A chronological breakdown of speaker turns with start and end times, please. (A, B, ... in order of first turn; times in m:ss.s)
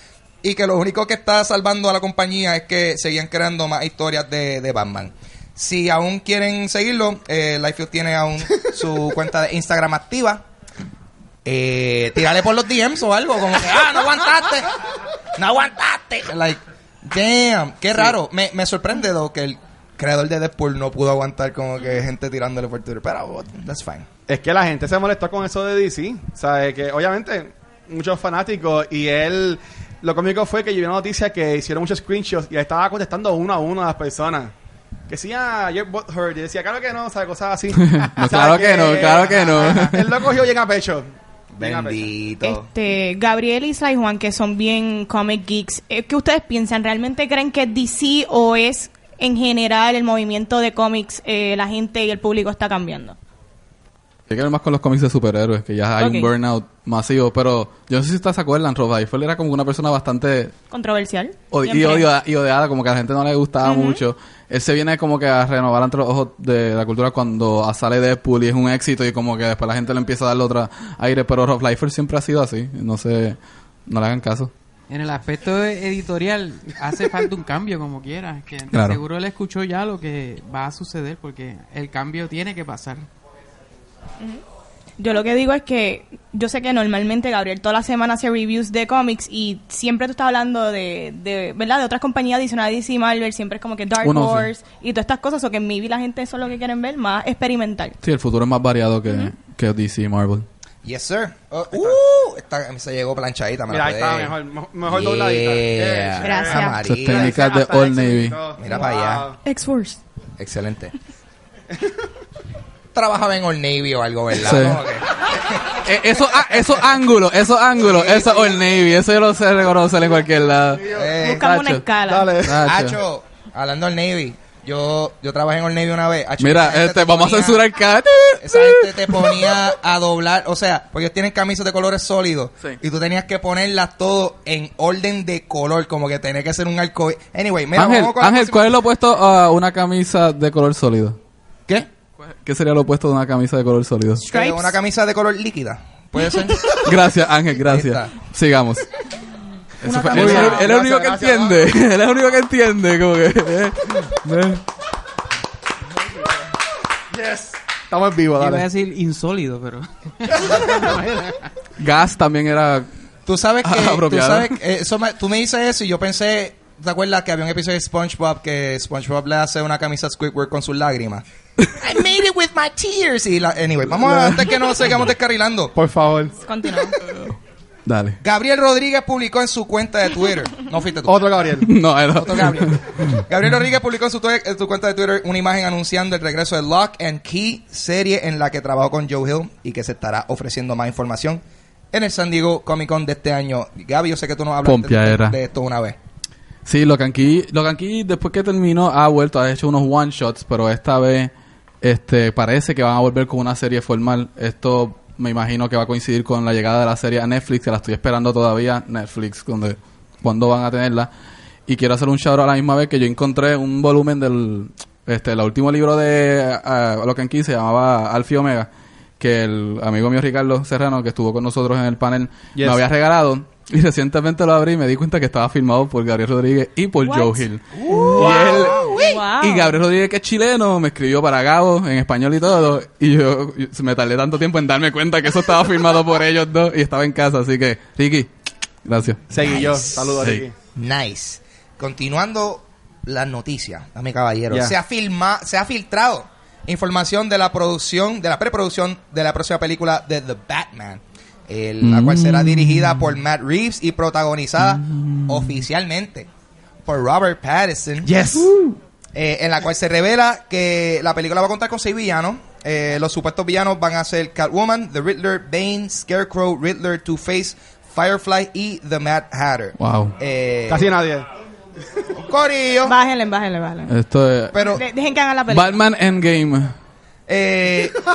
0:00.4-0:10.4 A
0:11.4-0:14.7 A
0:15.4-0:24.1 A
0:24.3-0:34.5 B
0:35.1-0:42.1 B
0:37.8-0:40.1 C
0:38.3-0:40.0 A
0:41.6-0:42.7 A
0:42.4-0:53.2 D
0:54.3-1:00.5 C
0:56.0-0:56.3 D
1:00.7-1:02.1 D
1:01.5-1:14.5 C
1:03.6-1:04.0 D
1:14.9-1:23.1 E
1:18.7-1:19.0 C
1:25.0-1:38.0 D
1:34.0-1:34.5 C
1:38.0-1:40.4 C
1:40.8-1:47.4 A
1:41.7-1:42.0 B
1:43.7-1:49.4 B
1:46.2-1:46.8 D
1:46.8-1:48.4 C
1:48.6-1:49.3 A
1:49.4-1:50.0 D
1:50.4-1:50.9 A
1:52.9-1:56.8 A
1:54.4-1:54.8 C
1:55.7-2:01.8 C
1:57.8-1:58.6 A
2:00.8-2:01.4 A
2:01.2-2:02.3 D
2:02.0-2:02.6 B
2:02.4-2:03.0 C
2:02.6-2:07.6 A
2:06.4-2:09.5 C
2:08.4-2:18.8 A
2:17.8-2:21.2 C
2:22.4-2:24.2 C
2:24.2-2:24.7 D
2:24.3-2:27.0 A
2:26.7-2:28.9 C
2:27.6-2:28.1 A
2:29.8-2:30.7 D
2:29.8-2:34.6 C
2:30.1-2:31.6 B
2:37.1-2:38.6 B
2:38.4-2:41.1 E
2:40.4-2:41.2 B
2:41.8-2:42.9 C
2:43.2-2:55.7 A
2:43.6-2:44.6 C
2:55.8-2:56.4 B
2:56.4-2:57.0 D
2:57.0-2:58.2 C
2:58.2-3:01.3 A
3:01.1-3:01.7 B
3:01.6-3:03.2 C
3:02.1-3:16.0 A
3:14.6-3:15.4 C
3:16.6-3:21.3 C
3:21.8-3:31.1 C
3:31.7-3:38.7 C
3:39.2-3:58.3 C
3:42.5-3:42.8 B
3:47.0-3:49.8 D
3:47.8-3:49.2 A
3:58.8-3:59.2 C
3:59.3-4:00.5 B
3:59.4-4:00.2 A
4:00.8-4:16.3 A
4:11.8-4:13.2 C
4:14.6-4:15.5 C
4:16.9-4:18.2 A
4:18.0-4:18.8 B
4:19.1-4:30.9 A
4:29.8-4:30.1 C
4:30.7-4:31.3 B
4:32.1-4:33.0 A
4:32.8-4:33.9 D
4:33.9-4:34.5 C
4:34.5-4:34.8 A
4:34.6-4:35.8 D
4:35.5-4:36.7 C
4:37.3-4:38.0 A